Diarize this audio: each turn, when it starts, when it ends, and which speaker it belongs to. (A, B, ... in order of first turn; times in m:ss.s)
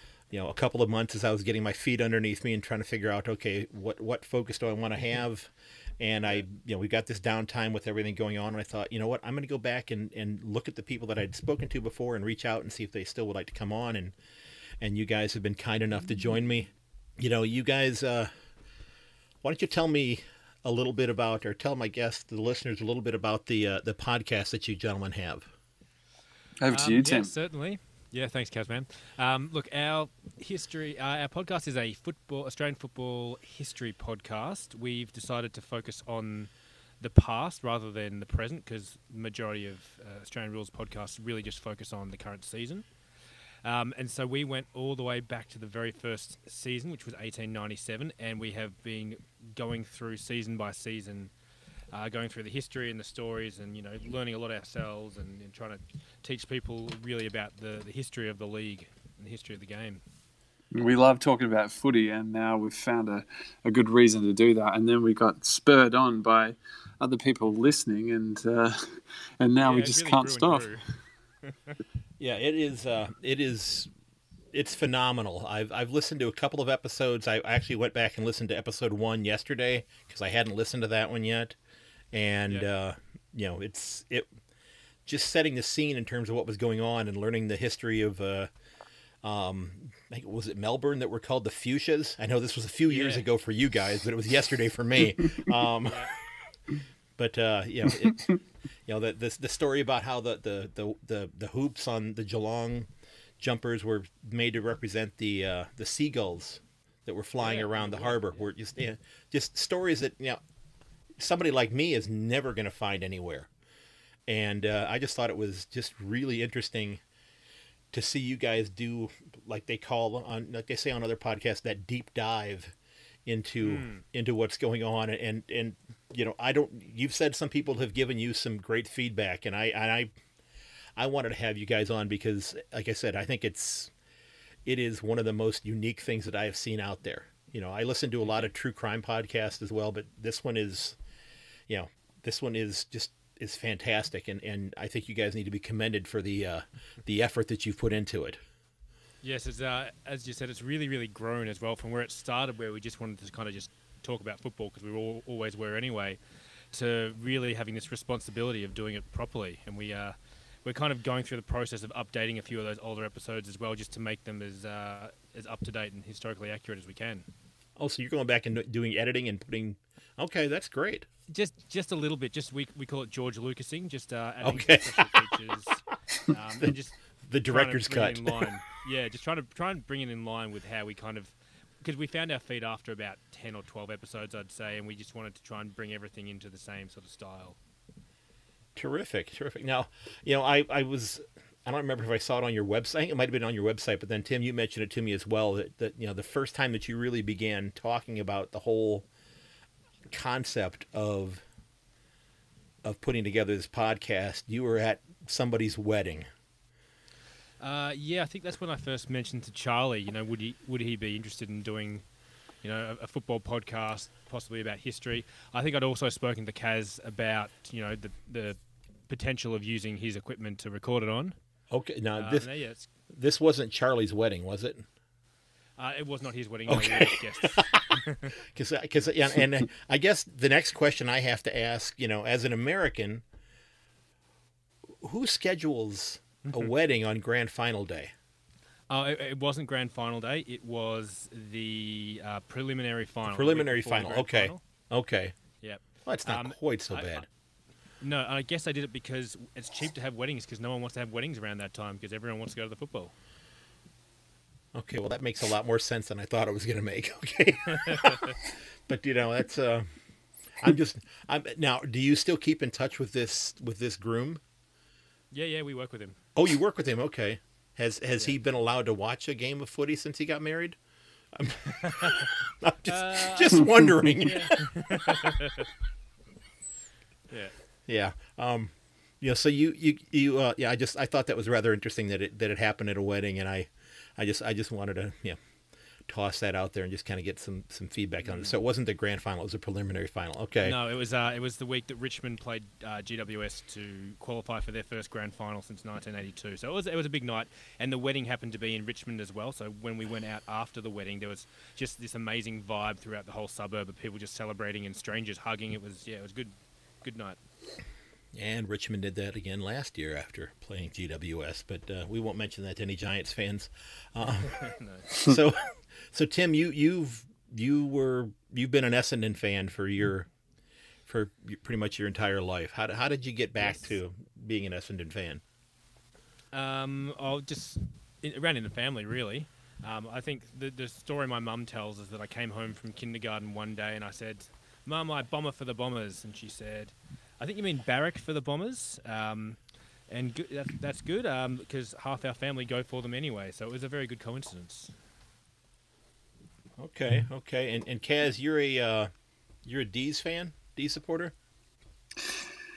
0:00.3-0:14.2 A
0:14.8-0:18.3 A
0:19.4-0:25.5 A
0:26.6-0:27.3 B
0:26.7-0:42.9 C
0:43.6-0:51.3 C
0:51.9-1:00.0 C
1:00.7-1:10.7 B
1:09.7-1:10.8 C
1:11.4-1:11.8 C
1:12.2-1:13.9 A
1:14.5-1:21.6 A
1:22.1-1:24.3 A
1:25.1-1:28.5 A
1:29.2-1:36.1 A
1:32.9-1:33.2 C
1:35.8-1:36.2 C
1:37.2-1:38.3 A
1:38.9-1:42.9 A
1:43.4-1:50.4 A
1:47.4-1:48.4 C
1:51.2-1:53.5 A
1:54.3-1:57.0 A
1:57.9-2:02.7 A
2:03.2-2:10.1 A
2:03.6-2:04.0 C
2:11.0-2:13.9 A
2:14.7-2:21.0 A
2:21.7-2:28.4 A
2:29.2-2:36.2 C
2:36.7-2:47.3 C
2:47.8-2:51.1 A
2:51.3-3:07.6 C
2:54.4-2:55.2 A
2:57.2-2:58.5 A
3:08.8-3:19.1 A
3:20.1-3:21.4 A
3:22.8-3:26.3 A
3:27.6-3:32.0 C
3:32.6-3:38.6 C
3:39.1-3:41.4 C
3:41.7-3:42.5 A
3:42.2-3:42.9 C
3:43.1-3:44.9 A
3:45.8-3:48.4 C
3:46.7-3:53.2 A
3:55.0-3:58.1 A
3:58.9-4:04.6 C
4:03.3-4:05.4 A
4:05.6-4:07.2 C
4:06.1-4:07.2 A
4:08.0-4:13.1 C
4:14.8-4:18.4 A
4:17.7-4:18.4 C
4:18.9-4:19.9 A
4:20.6-4:24.4 A
4:25.3-4:26.2 C
4:26.4-4:30.8 A
4:31.4-4:35.3 A
4:31.8-4:32.3 C
4:32.9-4:35.7 C
4:37.9-4:45.4 A
4:46.1-4:50.8 A
4:48.3-4:48.5 C
4:50.6-5:07.4 C
5:08.3-5:20.3 A
5:14.4-5:15.1 C
5:21.1-5:25.4 A
5:23.6-5:23.9 C
5:26.5-5:44.9 C
5:46.8-5:49.1 A
5:49.7-5:51.3 A